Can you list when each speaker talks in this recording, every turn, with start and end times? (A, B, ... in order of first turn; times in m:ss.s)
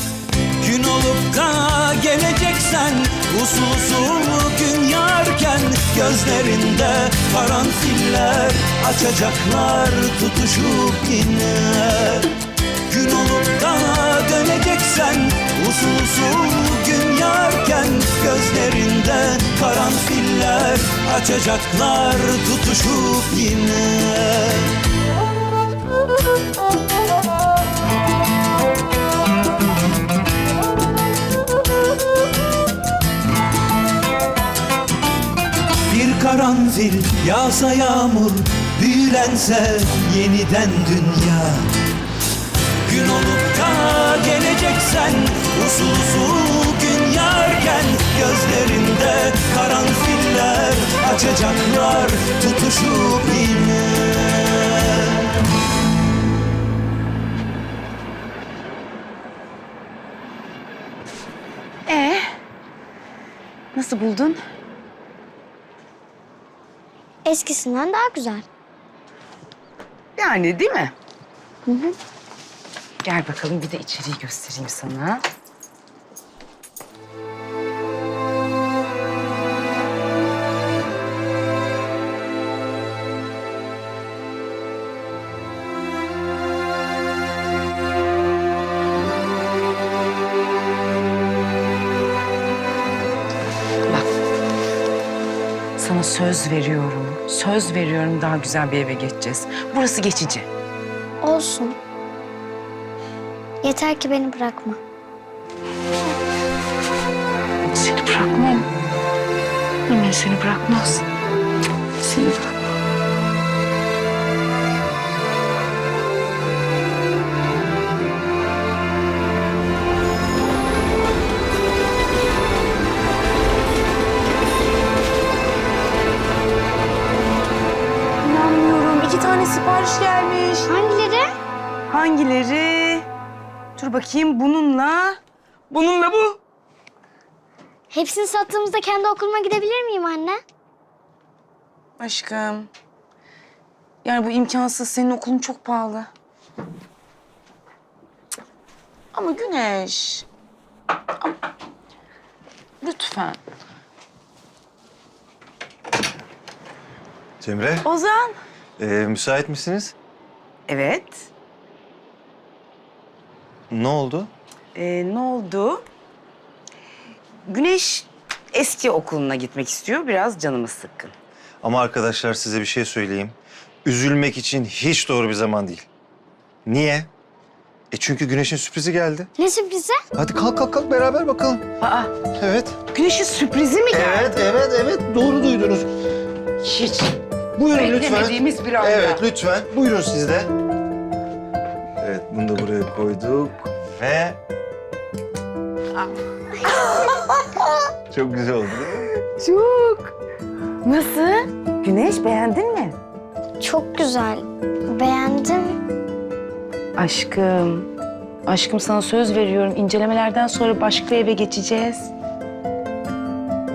0:00.6-0:12.3 A
0:12.9-0:24.7 A
0:35.9-0:41.7 A
0:42.9-0:55.2 A
1:01.9-1:02.3 B
1:03.7-1:04.4 B
1:07.3-1:08.4 C
1:10.2-1:10.9 B
1:11.7-1:11.9 C
1:13.0-1:15.2 B
1:35.8-1:40.5 B
1:41.2-1:41.8 C
1:43.6-1:44.8 C
1:47.6-1:48.7 B
1:49.9-1:51.0 B
1:52.0-1:52.5 B
2:08.2-2:10.7 B
2:10.7-2:11.3 C
2:11.9-2:13.1 B
2:13.8-2:15.2 B
2:15.7-2:16.4 B
2:17.9-2:20.4 C
2:22.0-2:22.7 B
2:24.0-2:26.1 B
2:29.1-2:30.3 B
2:32.8-2:33.4 B
2:37.4-2:37.9 D
2:37.8-2:38.4 B
2:38.8-2:40.0 D
2:40.7-2:41.3 B
2:43.7-2:44.3 D
2:44.8-2:45.8 B
2:47.5-2:51.1 B
2:51.6-2:55.9 D
2:56.7-2:57.1 D
2:57.9-2:59.3 D
2:59.4-3:00.0 C
3:00.2-3:01.7 D
3:01.8-3:02.1 B
3:02.4-3:02.8 D
3:02.9-3:04.3 B
3:03.9-3:05.9 D
3:06.6-3:09.2 B
3:07.7-3:10.5 D
3:12.0-3:14.4 D
3:16.7-3:17.8 B
3:18.1-3:19.1 D
3:19.2-3:20.2 B
3:20.8-3:23.0 B
3:23.6-3:25.8 C
3:27.0-3:27.9 B
3:28.5-3:32.1 B